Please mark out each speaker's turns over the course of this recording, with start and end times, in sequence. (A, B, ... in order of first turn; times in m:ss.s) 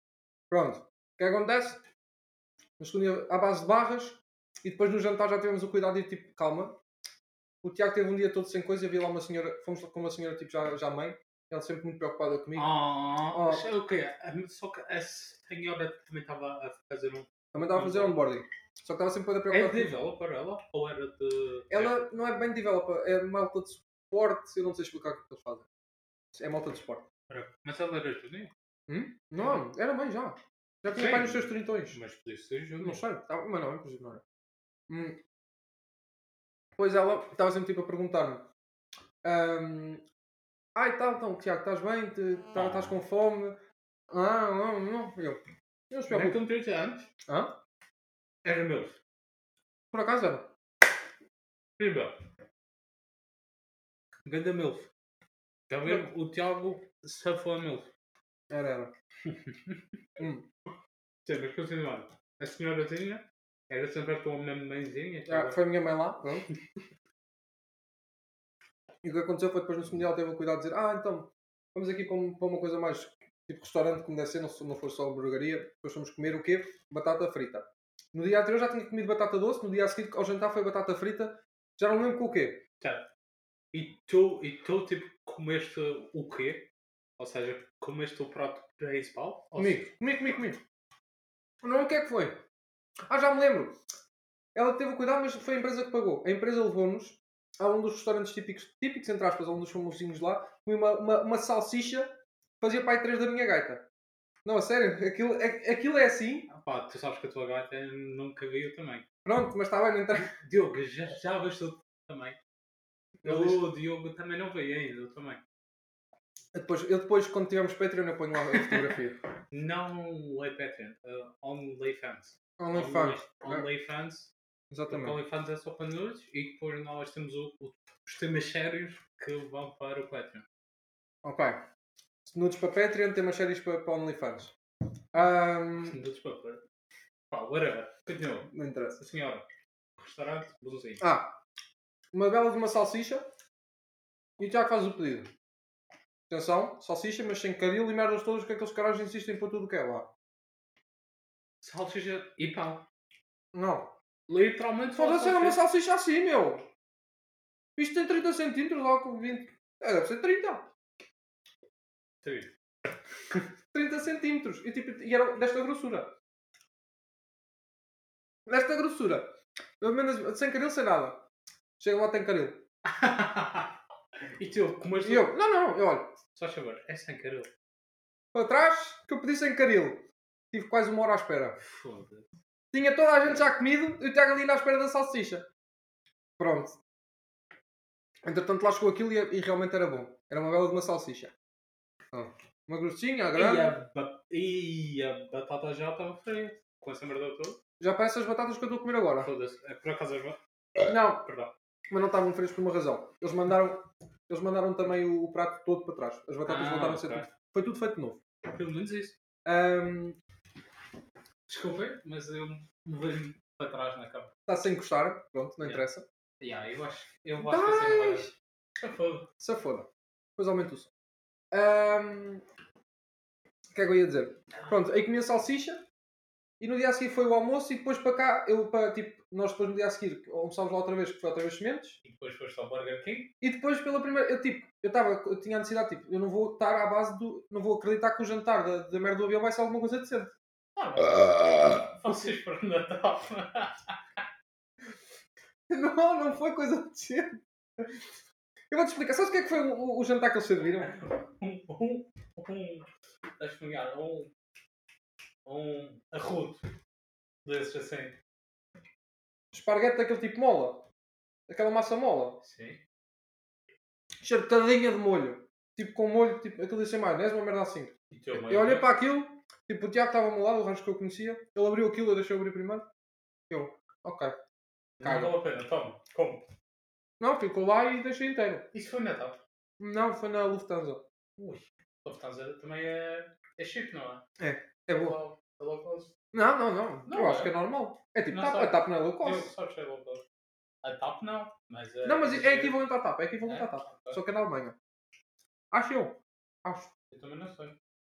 0:00.5-0:01.8 A
0:02.8-0:06.8 A
0:07.6-0:12.7 A
0:12.6-0:18.2 B
0:13.3-0:13.6 A
0:17.5-0:20.0 A
0:19.5-0:21.9 B
0:21.7-0:25.7 A
0:26.3-0:27.0 A
0:27.3-0:28.5 B
0:28.9-0:32.0 A
0:30.9-0:33.0 B
0:32.8-0:34.2 A
0:34.9-0:35.2 A
0:36.8-0:38.5 A
0:39.2-0:40.0 A
0:40.7-0:43.6 A
0:42.5-0:43.0 B
0:44.1-0:46.4 A
0:46.1-0:47.1 B
0:47.3-0:47.6 A
0:48.4-0:49.0 B
0:49.9-0:50.5 A
0:51.8-0:52.2 B
0:54.2-0:54.9 B
0:55.7-0:57.9 B
0:58.5-0:58.9 A
0:59.2-0:59.8 B
1:00.2-1:00.5 A
1:01.2-1:05.6 B
1:05.3-1:06.4 A
1:09.0-1:22.6 A
1:22.8-1:23.1 B
1:23.7-1:29.9 B
1:29.6-1:30.6 A
1:31.6-1:32.4 A
1:33.1-1:33.8 A
1:34.5-1:43.8 A
1:44.4-1:46.5 A
1:46.5-1:49.0 B
1:49.2-1:50.3 A
1:50.2-1:52.4 B
1:53.2-1:53.6 A
1:53.2-1:55.4 B
1:56.5-1:59.2 A
1:59.5-2:04.3 B
2:02.6-2:03.6 A
2:04.7-2:05.2 A
2:04.9-2:10.4 B
2:11.2-2:11.6 A
2:12.2-2:14.5 A
2:15.1-2:16.0 A
2:15.8-2:16.6 B
2:17.3-2:19.4 B
2:18.5-2:19.0 A
2:20.0-2:21.0 B
2:21.0-2:21.4 A
2:22.1-2:23.2 A
2:24.4-2:25.3 A
2:26.3-2:30.1 A
2:31.6-2:32.8 B
2:33.5-2:33.9 A
2:34.3-2:35.6 B
2:35.0-2:36.7 A
2:37.8-2:40.7 A
2:42.2-2:42.5 B
2:43.7-2:46.1 A
2:48.5-2:51.2 A
2:51.8-2:52.6 A
2:52.8-2:53.8 B
2:54.4-2:55.3 B
2:55.0-2:56.2 A
2:56.3-2:57.5 B
2:58.3-3:01.6 A
3:01.6-3:02.3 B
3:02.7-3:05.5 A
3:06.4-3:06.8 A
3:08.2-3:11.3 A
3:12.1-3:13.7 A
3:13.4-3:17.6 B
3:17.8-3:19.3 A
3:19.2-3:20.4 B
3:20.8-3:21.2 A
3:21.2-3:21.5 B
3:21.9-3:28.2 A
3:26.4-3:27.3 B
3:28.4-3:29.2 B
3:29.4-3:30.2 A
3:31.5-3:34.3 B
3:34.5-3:36.0 A
3:36.4-3:39.3 B
3:37.4-3:38.3 A
3:39.4-3:40.9 A
3:41.5-3:42.4 A
3:43.7-3:45.8 A
3:46.6-3:52.0 A
3:52.0-3:53.3 B
3:53.4-4:00.3 A
4:00.8-4:04.0 B
4:05.7-4:07.9 A
4:08.7-4:10.9 A
4:10.8-4:12.9 B
4:13.4-4:14.3 B
4:15.4-4:16.6 B
4:17.4-4:18.2 B
4:19.5-4:20.9 A
4:21.5-4:22.4 A
4:22.4-4:22.8 B
4:24.2-4:32.9 A
4:28.1-4:28.9 B
4:33.5-4:34.4 A
4:35.0-4:36.5 B
4:35.0-4:35.3 A
4:37.2-4:38.7 A
4:38.7-4:39.4 B
4:39.8-4:41.0 A
4:41.4-4:44.2 B
4:44.4-4:45.2 A
4:44.9-4:46.1 B
4:46.3-4:49.5 A
4:47.0-4:47.6 B
4:48.3-4:50.2 B
4:50.8-4:52.8 B
4:52.0-4:54.8 A
4:53.4-4:54.2 B
4:55.7-4:56.9 A
4:57.1-4:57.8 B